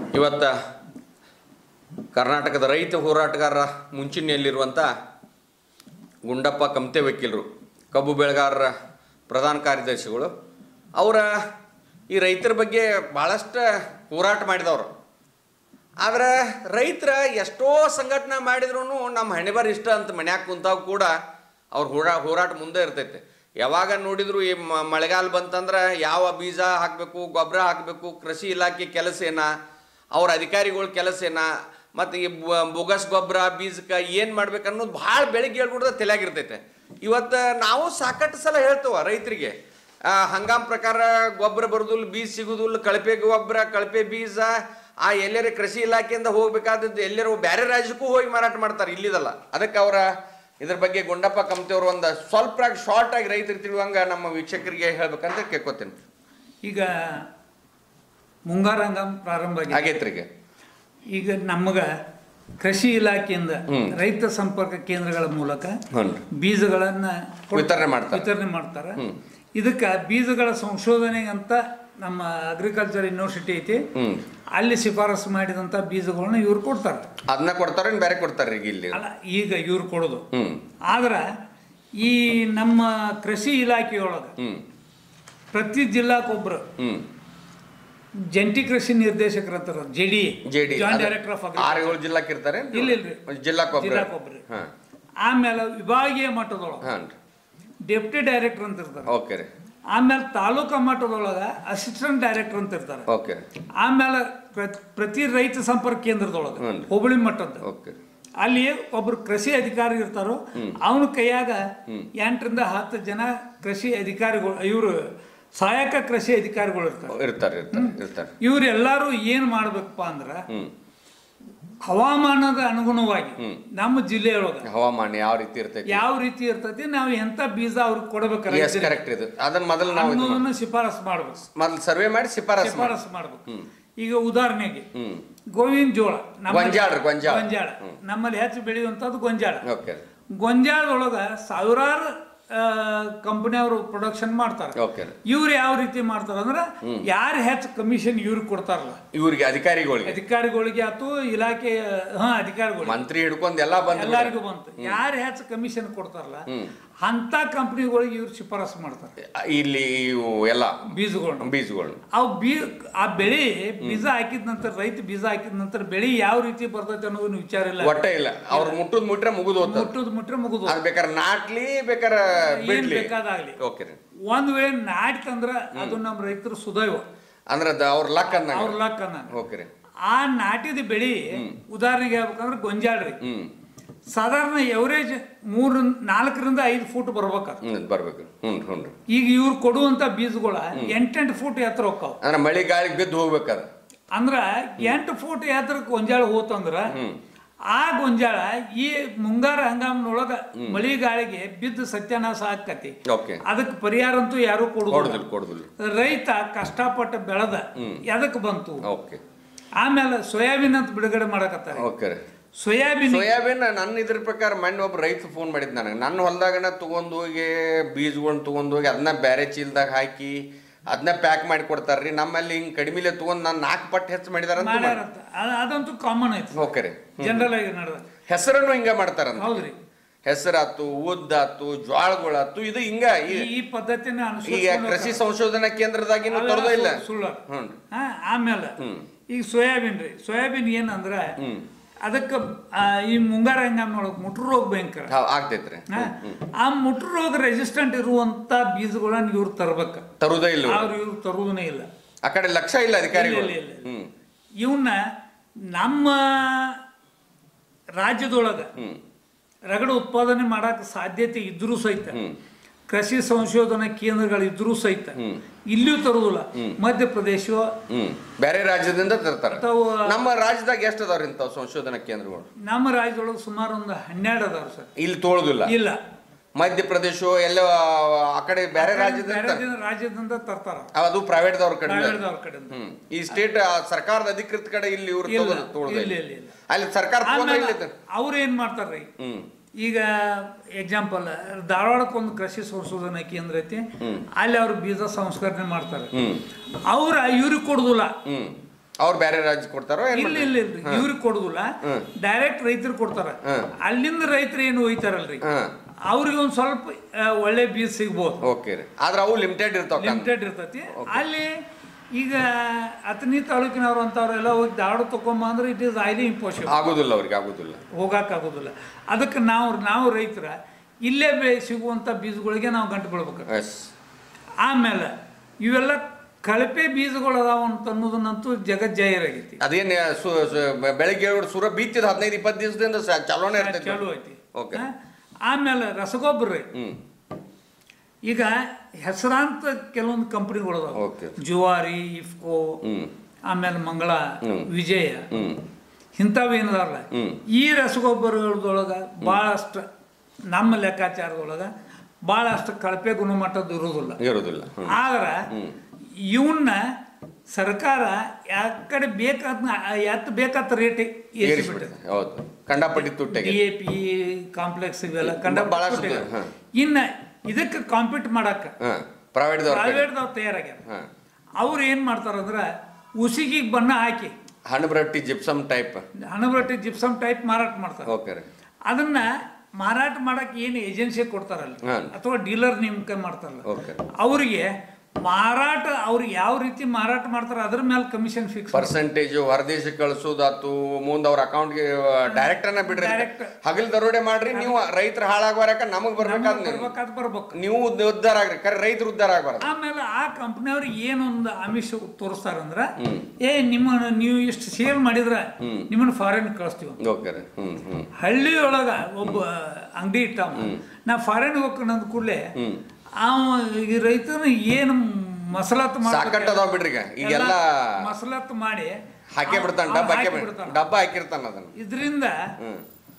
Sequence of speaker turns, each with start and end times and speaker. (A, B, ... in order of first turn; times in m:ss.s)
0:00.1-0:00.5 A
0:02.1-0:04.9 A
0:06.3-0:08.7 A
0:09.3-0:10.3 A
0:11.0-0:11.3 A
0:12.1-0:14.9 A
0:16.0-0:21.1 A
0:21.7-0:29.5 A
0:30.2-0:39.5 A
0:40.1-0:50.1 A
0:50.6-0:55.9 A
0:56.6-0:57.3 B
0:58.5-0:59.8 B
0:59.7-1:00.3 A
1:01.1-1:01.9 B
1:02.6-1:05.8 B
1:03.7-1:04.0 A
1:05.9-1:06.2 A
1:06.3-1:09.0 B
1:07.5-1:08.3 A
1:09.6-1:13.8 B
1:14.0-1:14.2 A
1:14.6-1:17.1 B
1:17.3-1:19.0 A
1:18.9-1:20.3 B
1:20.3-1:20.6 A
1:20.9-1:21.3 B
1:22.0-1:24.3 B
1:25.5-1:26.6 B
1:26.8-1:27.0 A
1:28.3-1:32.0 B
1:30.4-1:34.7 A
1:32.7-1:33.2 B
1:33.7-1:34.4 B
1:35.2-1:36.8 B
1:36.8-1:37.1 A
1:37.9-1:39.1 B
1:39.1-1:39.5 A
1:39.9-1:43.1 B
1:43.1-1:43.4 A
1:43.8-1:47.6 B
1:46.6-1:46.9 A
1:47.6-1:48.0 A
1:48.4-1:51.6 B
1:52.2-1:55.0 B
1:55.6-1:57.2 B
1:57.1-1:58.3 A
1:57.7-2:00.4 B
2:01.8-2:04.7 B
2:04.7-2:06.0 A
2:05.9-2:09.0 B
2:08.5-2:10.4 A
2:09.9-2:11.5 B
2:11.6-2:13.0 A
2:12.6-2:13.4 B
2:14.0-2:14.9 B
2:14.9-2:15.2 A
2:15.5-2:19.6 B
2:16.5-2:18.0 A
2:19.6-2:20.0 A
2:20.4-2:29.0 B
2:24.8-2:25.2 A
2:29.1-2:30.2 A
2:30.1-2:33.0 B
2:32.8-2:35.0 A
2:33.9-2:36.5 B
2:37.0-2:39.1 B
2:39.2-2:40.9 A
2:40.9-2:41.5 B
2:41.4-2:42.0 A
2:42.1-2:48.0 B
2:47.8-2:49.9 A
2:48.5-2:48.8 B
2:49.6-2:50.8 B
2:50.7-2:54.0 A
2:52.4-2:53.6 B
2:54.3-2:57.0 B
2:57.5-2:58.8 A
2:58.3-2:59.3 B
2:59.3-2:59.7 A
3:00.1-3:03.2 B
3:03.2-3:03.5 A
3:04.1-3:07.6 B
3:07.6-3:08.9 A
3:09.1-3:12.2 B
3:12.2-3:13.7 A
3:14.1-3:16.9 B
3:16.9-3:17.2 A
3:17.7-3:22.9 B
3:23.1-3:23.4 A
3:23.5-3:25.2 B
3:24.9-3:25.7 A
3:25.8-3:28.8 B
3:27.8-3:28.0 A
3:28.8-3:29.2 A
3:29.8-3:31.9 B
3:31.8-3:32.2 A
3:32.6-3:33.3 B
3:33.1-3:45.0 A
3:44.6-3:48.0 B
3:46.6-3:47.5 A
3:48.3-3:49.7 A
3:49.4-3:49.8 B
3:50.2-3:53.5 A
3:53.3-3:55.2 B
3:54.5-3:57.8 A
3:56.3-3:57.4 B
3:57.9-3:58.8 B
3:58.8-3:59.1 A
3:59.3-4:01.4 B
4:01.4-4:01.7 A
4:02.0-4:05.1 B
4:05.1-4:06.4 A
4:05.9-4:10.0 B
4:10.2-4:10.9 A
4:10.7-4:11.9 B
4:12.2-4:14.1 A
4:13.1-4:13.9 B
4:14.6-4:15.0 B
4:15.7-4:16.8 B
4:18.0-4:18.7 B
4:18.8-4:19.0 A
4:19.7-4:22.2 B
4:22.1-4:22.4 A
4:22.9-4:25.2 B
4:25.7-4:27.7 B
4:27.9-4:32.5 A
4:29.5-4:30.2 B
4:32.6-4:34.9 B
4:35.0-4:35.7 A
4:35.7-4:36.0 B
4:36.6-4:39.6 A
4:38.8-4:40.9 B
4:41.0-4:42.2 A
4:41.9-4:42.7 B
4:42.7-4:46.1 A
4:45.3-4:46.5 B
4:46.7-4:47.9 A
4:47.2-4:49.1 B
4:49.2-4:49.5 A
4:49.8-4:53.8 B
4:54.0-4:54.3 A
4:54.4-4:56.1 B
4:56.1-4:56.5 A
4:56.9-4:58.2 B
4:58.3-5:01.0 A
5:00.1-5:05.4 B
5:03.4-5:03.7 A
5:05.4-5:05.7 A
5:06.1-5:08.4 B
5:08.4-5:10.3 A
5:10.0-5:11.5 B
5:10.9-5:11.2 A
5:12.2-5:16.8 B
5:16.7-5:17.8 A
5:17.9-5:23.5 B
5:23.5-5:23.9 A
5:24.6-5:29.6 B
5:29.6-5:34.0 A
5:33.6-5:34.9 B
5:34.5-5:34.8 A
5:35.4-5:36.7 B
5:36.7-5:37.0 A
5:38.3-5:42.8 B
5:41.0-5:41.4 A
5:42.8-5:43.1 A
5:43.5-5:45.3 B
5:44.4-5:44.7 A
5:45.3-5:45.6 A
5:46.2-5:49.8 B
5:47.1-5:47.4 A
5:50.5-5:51.7 B
5:52.3-5:54.2 B
5:54.2-5:55.0 A
5:54.9-5:55.4 B
5:56.2-5:56.8 B
5:57.5-6:01.9 B
6:01.4-6:03.6 A
6:03.0-6:08.7 B
6:05.2-6:06.5 A
6:08.8-6:10.1 A
6:09.7-6:10.9 B
6:11.6-6:12.6 B
6:13.2-6:14.3 B
6:14.7-6:16.0 A
6:16.3-6:18.1 B
6:18.1-6:18.4 A
6:18.9-6:19.3 B
6:19.8-6:24.7 B
6:21.8-6:22.2 A
6:23.7-6:24.0 A
6:25.2-6:29.0 B
6:28.7-6:36.9 A
6:32.3-6:33.5 B
6:34.5-6:34.9 B
6:36.2-6:37.6 B
6:37.5-6:39.7 A
6:39.6-6:47.0 B
6:43.0-6:43.3 A
6:45.6-6:45.9 A
6:47.0-6:48.1 A
6:48.2-6:52.5 B
6:50.6-6:50.8 A
6:52.6-6:52.8 A
6:53.2-6:56.6 B
6:56.1-6:57.9 A
6:57.2-7:00.8 B
6:59.3-7:01.7 A
7:01.8-7:02.4 B